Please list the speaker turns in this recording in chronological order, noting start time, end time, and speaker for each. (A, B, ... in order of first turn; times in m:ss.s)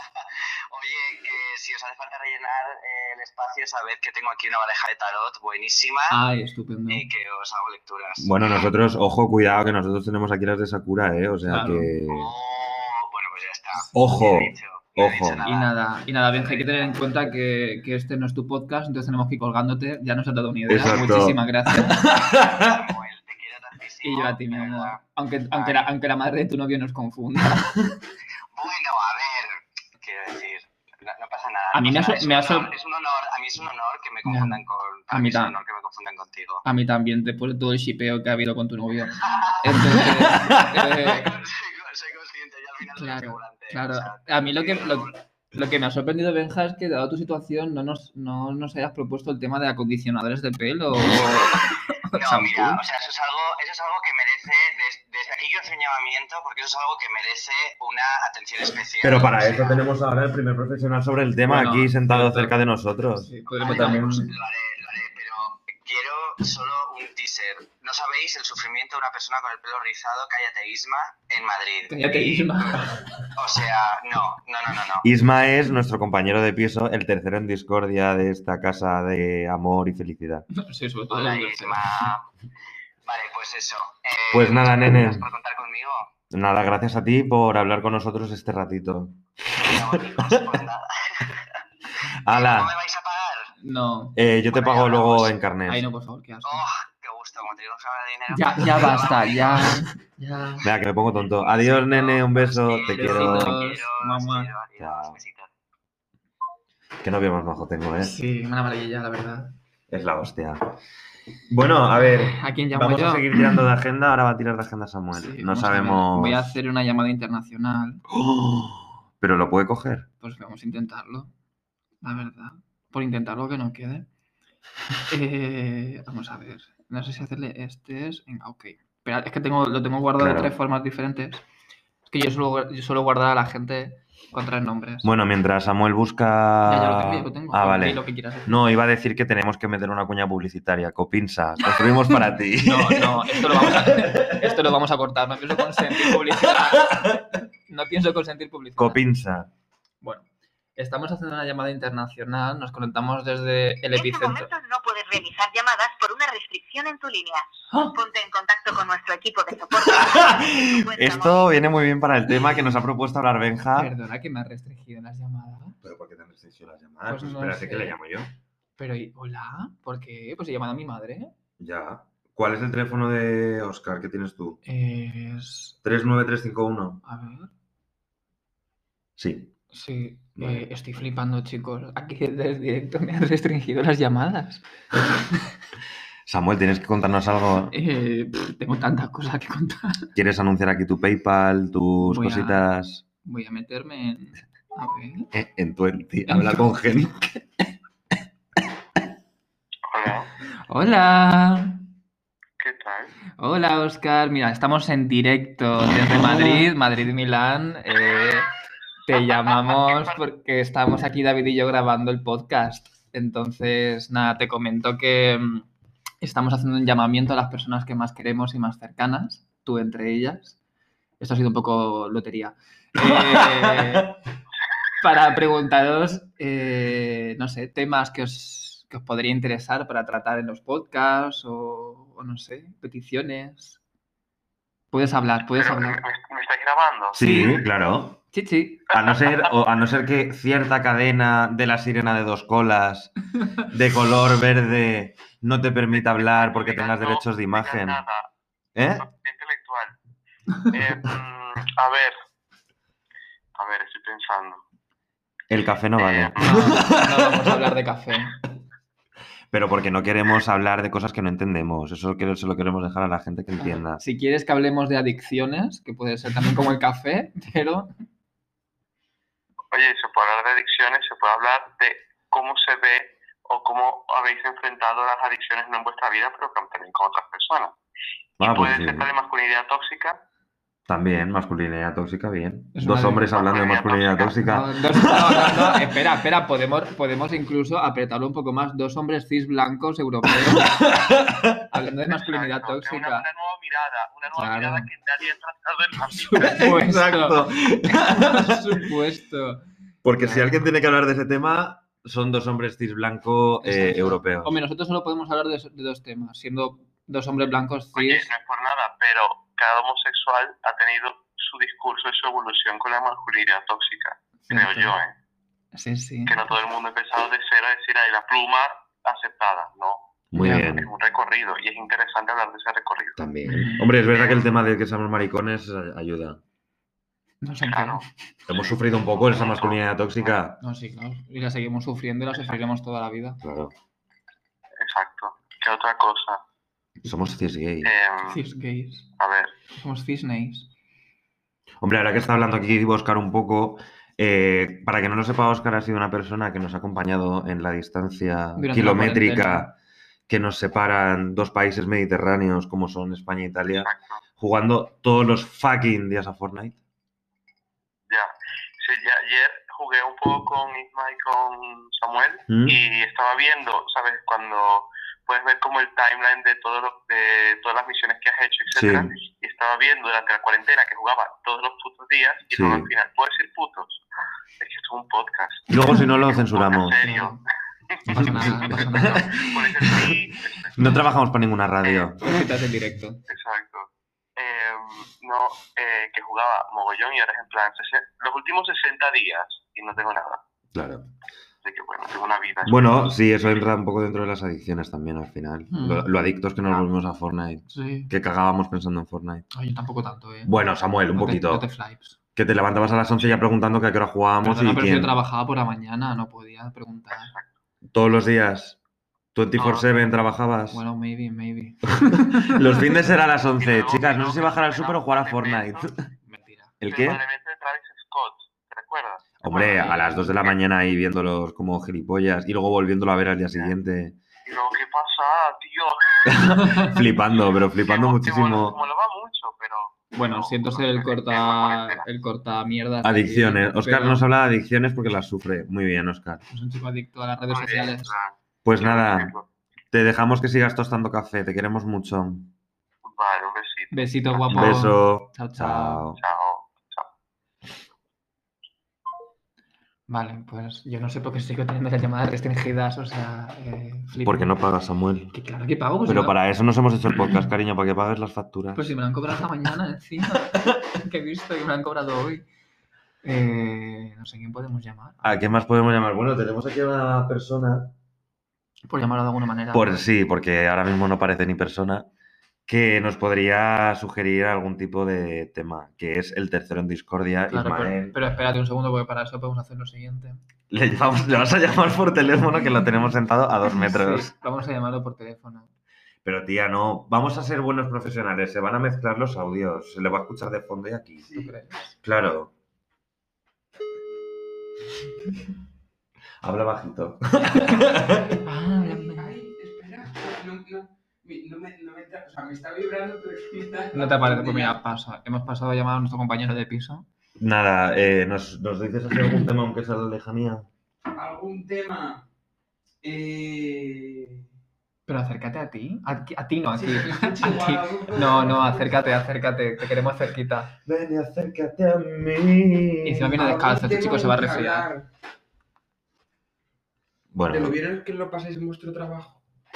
0:00.7-0:06.2 A
0:06.1-0:07.0 B
0:06.9-0:08.7 A
0:08.2-0:12.3 C
0:11.4-0:11.9 B
0:12.1-0:15.7 A
0:13.9-0:15.4 C
0:15.4-0:22.1 B
0:16.3-0:16.9 A
0:20.7-0:22.7 C
0:21.9-0:25.0 A
0:24.0-0:27.8 B
0:25.5-0:25.9 A
0:28.5-0:36.6 A
0:31.7-0:32.7 B
0:34.2-0:35.6 B
0:36.6-0:41.3 B
0:39.2-0:45.2 A
0:43.0-0:52.8 B
0:51.2-0:51.6 A
0:52.2-0:59.8 A
0:59.0-1:04.3 C
1:01.4-1:02.6 B
1:03.2-1:04.3 B
1:03.5-1:15.1 A
1:11.9-1:13.3 B
1:15.0-1:20.4 C
1:20.5-1:21.8 B
1:21.1-1:22.2 A
1:23.0-1:26.1 A
1:24.3-1:25.2 C
1:26.3-1:30.5 C
1:29.5-1:31.4 A
1:32.2-1:32.7 C
1:32.2-1:33.5 A
1:33.6-1:34.2 B
1:34.2-1:35.9 C
1:34.5-1:35.3 A
1:35.7-1:36.6 B
1:36.4-1:39.8 A
1:38.3-1:40.7 B
1:40.6-1:43.6 C
1:41.5-1:45.5 A
1:42.9-1:44.5 B
1:44.8-1:45.2 C
1:47.0-1:48.1 C
1:48.0-1:49.5 B
1:49.9-1:50.8 C
1:51.5-1:56.6 C
1:52.0-1:53.3 B
1:55.1-1:58.0 B
1:58.1-2:00.1 C
2:00.2-2:01.3 B
2:02.0-2:04.1 B
2:05.1-2:11.4 B
2:10.2-2:10.5 C
2:12.1-2:15.1 B
2:15.0-2:24.5 C
2:16.6-2:18.6 B
2:22.6-2:29.0 B
2:28.8-2:29.5 C
2:30.0-2:34.5 B
2:33.9-2:41.5 D
2:37.7-2:38.0 B
2:39.8-2:43.9 C
2:43.7-2:45.8 B
2:45.8-2:48.3 C
2:47.1-2:48.0 B
2:48.8-2:51.3 B
2:51.6-2:54.6 C
2:54.6-2:55.8 B
2:55.8-2:57.0 C
2:57.0-2:57.5 B
2:59.2-2:59.5 C
2:59.7-3:04.6 B
3:00.4-3:00.7 C
3:06.3-3:07.7 C
3:07.7-3:10.1 B
3:10.1-3:13.0 C
3:12.0-3:12.6 B
3:13.2-3:15.3 B
3:15.3-3:17.3 C
3:16.3-3:16.7 B
3:19.9-3:20.3 E
3:20.7-3:21.8 B
3:22.6-3:23.1 E
3:23.4-3:28.5 B
3:29.0-3:35.6 B
3:29.8-3:30.1 E
3:36.2-3:40.6 B
3:41.2-3:44.1 B
3:43.0-3:44.0 C
3:45.0-3:53.8 B
3:54.9-3:56.0 B
3:55.6-3:57.4 E
3:57.1-3:58.2 C
3:57.2-3:57.6 B
3:58.3-3:58.9 B
3:58.9-4:03.1 C
4:03.7-4:08.0 C
4:06.0-4:08.3 E
4:08.8-4:09.0 C
4:09.0-4:09.9 E
4:10.7-4:12.1 E
4:13.5-4:14.6 E
4:15.5-4:17.3 C
4:16.0-4:16.6 E
4:16.4-4:18.4 B
4:19.5-4:24.0 C
4:23.6-4:27.9 B
4:29.7-4:37.7 E
4:38.4-4:40.2 E
4:38.4-4:39.1 C
4:40.9-4:45.6 C
4:42.7-4:43.3 B
4:43.3-4:44.4 E
4:44.4-4:50.7 B
4:50.6-4:51.5 C
4:51.7-4:53.3 B
4:52.1-4:56.6 E
4:54.3-4:54.9 B
4:56.1-4:59.6 B
4:56.4-4:58.6 C
5:00.0-5:04.5 C
5:00.2-5:00.7 B
5:03.6-5:08.3 B
5:07.9-5:15.1 E
5:14.5-5:15.0 B
5:15.7-5:16.5 B
5:16.2-5:23.2 E
5:20.3-5:20.9 C
5:20.4-5:20.7 B
5:23.2-5:26.4 C
5:23.4-5:23.9 B
5:24.1-5:24.5 E
5:27.4-5:28.0 B
5:27.6-5:28.0 E
5:28.5-5:30.6 C
5:29.2-5:29.8 E
5:30.6-5:33.4 B
5:33.4-5:33.7 C
5:34.8-5:36.4 E
5:37.0-5:37.9 C
5:37.8-5:38.4 E
5:38.2-5:39.1 B
5:39.2-5:39.5 E
5:39.7-5:40.7 B
5:41.8-5:49.7 C
5:48.6-5:49.7 B
5:50.3-5:56.8 C
5:53.7-5:54.2 E
5:58.1-6:14.0 E
6:02.5-6:02.8 C
6:08.7-6:09.1 C
6:12.5-6:12.9 C
6:14.6-6:17.4 E
6:15.7-6:17.0 C
6:17.0-6:17.4 B
6:18.1-6:19.4 B
6:18.1-6:20.7 E
6:18.1-6:20.2 C
6:20.8-6:22.2 C
6:22.2-6:23.2 B
6:23.3-6:30.4 E
6:30.7-6:31.1 C
6:31.6-6:33.0 E
6:32.6-6:39.4 C
6:35.7-6:36.1 B
6:37.7-6:38.1 B
6:39.5-6:40.6 B
6:40.4-6:41.6 C
6:41.1-6:42.2 B
6:42.4-6:45.2 C
6:44.4-6:47.3 B
6:47.1-6:47.4 E
6:47.9-6:48.8 C
6:49.3-6:50.8 C
6:49.6-6:49.9 E
6:50.7-6:52.8 B
6:52.1-6:55.9 C
6:53.6-6:55.9 E
6:56.2-6:56.7 B
6:56.8-6:57.2 C
6:56.8-6:59.9 E
6:59.4-7:04.2 C
6:59.5-7:00.3 B
7:04.4-7:06.5 E
7:06.3-7:08.8 C
7:06.6-7:06.9 B
7:07.8-7:12.0 E
7:10.1-7:14.2 B
7:13.0-7:16.4 C
7:16.5-7:18.1 B
7:17.5-7:19.4 E
7:18.6-7:19.3 C
7:19.9-7:22.5 C
7:23.0-7:24.8 E
7:23.9-7:26.0 B
7:24.5-7:26.2 C
7:26.2-7:27.1 E
7:30.1-7:34.6 B
7:34.2-7:35.3 C
7:35.3-7:36.4 B
7:36.0-7:38.9 C
7:38.7-7:42.4 B
7:43.2-7:45.4 B
7:45.2-7:47.9 C
7:48.9-7:50.0 B
7:49.7-7:52.1 C
7:52.7-7:58.2 C
7:57.5-8:00.4 B
8:00.7-8:04.3 C
8:03.7-8:05.7 B
8:06.2-8:11.3 C
8:11.2-8:11.5 F
8:11.3-8:11.9 B
8:12.0-8:12.5 C
8:16.4-8:18.3 C
8:18.4-8:19.3 B
8:18.7-8:24.8 F
8:23.9-8:27.0 B
8:27.4-8:30.7 C
8:31.2-8:32.2 F
8:33.0-8:34.4 F
8:35.1-8:40.7 B
8:36.7-8:39.0 F
8:40.8-8:43.4 C
8:43.0-8:44.9 B
8:43.3-8:45.1 F
8:47.3-8:47.8 C
8:47.5-8:49.4 F